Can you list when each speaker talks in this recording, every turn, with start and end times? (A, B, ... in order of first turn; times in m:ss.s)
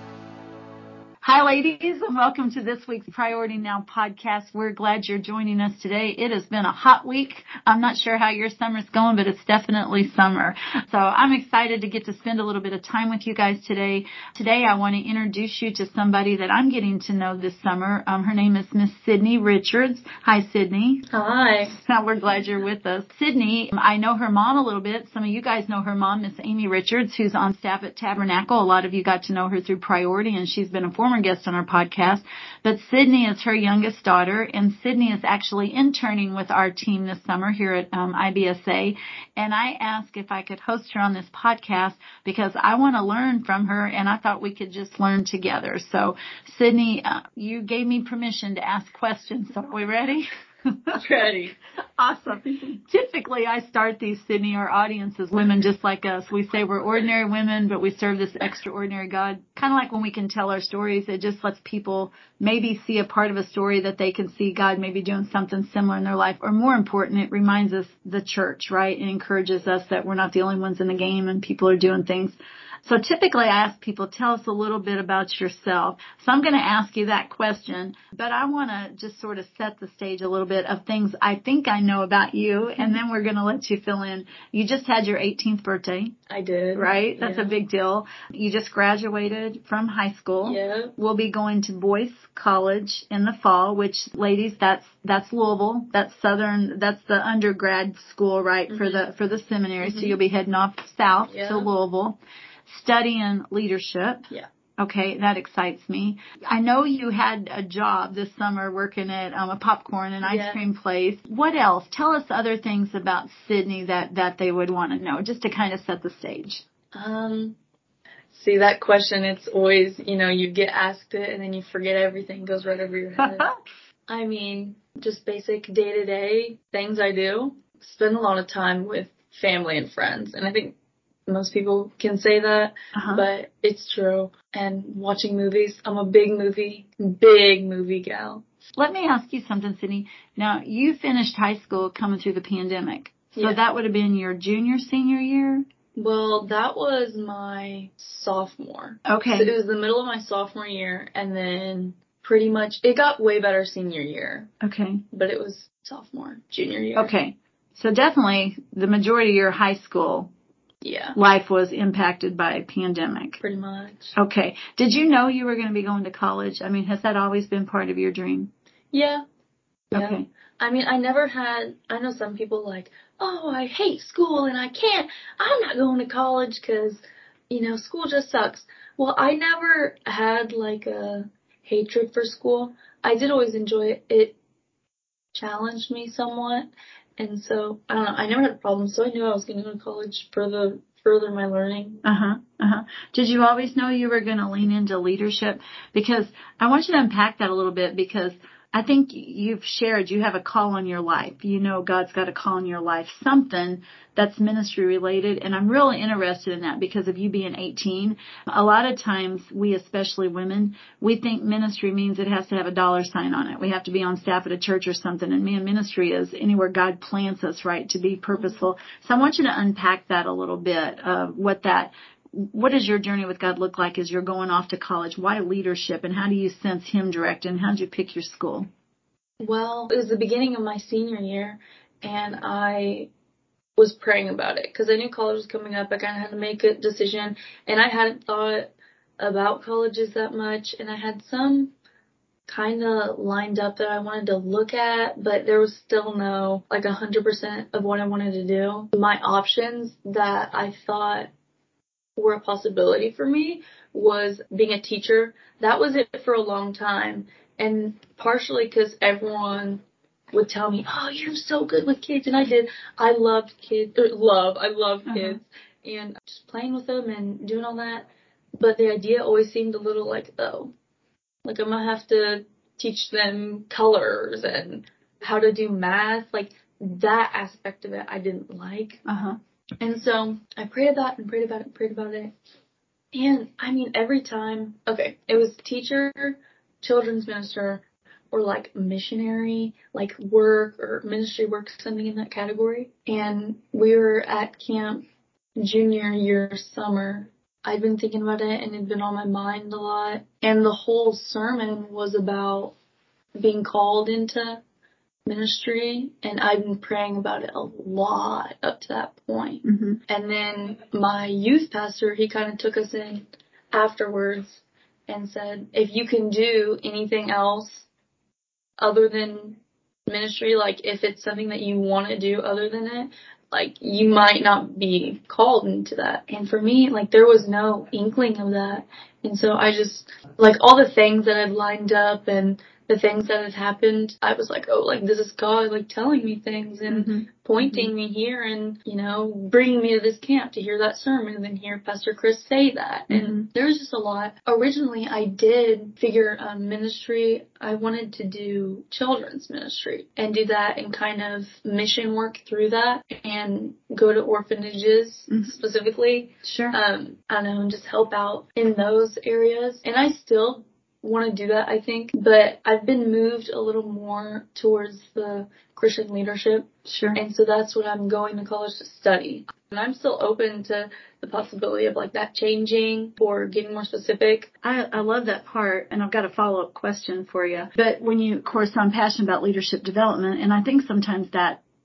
0:01.2-0:21.0 A
0:21.1-0:21.8 B
0:21.7-0:51.0 A
0:50.9-0:51.6 B
0:52.0-1:26.2 A
1:26.3-1:27.6 B
1:26.8-1:56.6 A
1:30.4-1:30.9 B
1:38.7-1:39.0 B
1:39.8-1:40.2 B
1:41.3-1:41.7 B
1:50.2-1:50.6 B
1:56.9-1:57.6 B
1:58.3-2:03.5 B
2:03.2-2:03.6 A
2:04.1-2:10.8 B
2:11.3-2:18.4 B
2:12.9-2:13.2 A
2:18.8-2:25.6 A
2:23.3-2:23.6 B
2:26.0-2:34.5 B
2:29.1-2:29.5 A
2:34.6-2:35.0 A
2:35.1-2:37.1 B
2:37.0-2:40.3 A
2:40.8-2:41.2 B
2:41.2-2:43.4 A
2:43.4-2:44.2 B
2:44.2-2:48.5 A
2:48.9-2:49.2 B
2:49.9-2:50.3 A
2:49.9-3:04.4 B
3:05.4-3:12.0 B
3:12.0-3:48.7 A
3:49.4-3:53.1 B
3:53.8-4:01.7 B
4:02.5-4:11.3 B
4:12.2-4:30.7 B
4:25.1-4:25.4 A
4:31.4-4:39.0 B
4:39.1-4:39.4 A
4:39.8-4:42.4 B
4:43.1-4:55.1 B
4:55.6-5:02.7 B
5:03.4-5:04.6 B
5:05.3-5:17.9 B
5:09.6-5:10.0 A
5:18.8-6:14.5 B
5:36.9-5:37.9 A
5:43.1-5:43.5 A
5:56.4-5:56.8 A
6:06.9-6:07.2 A
6:14.6-6:21.6 A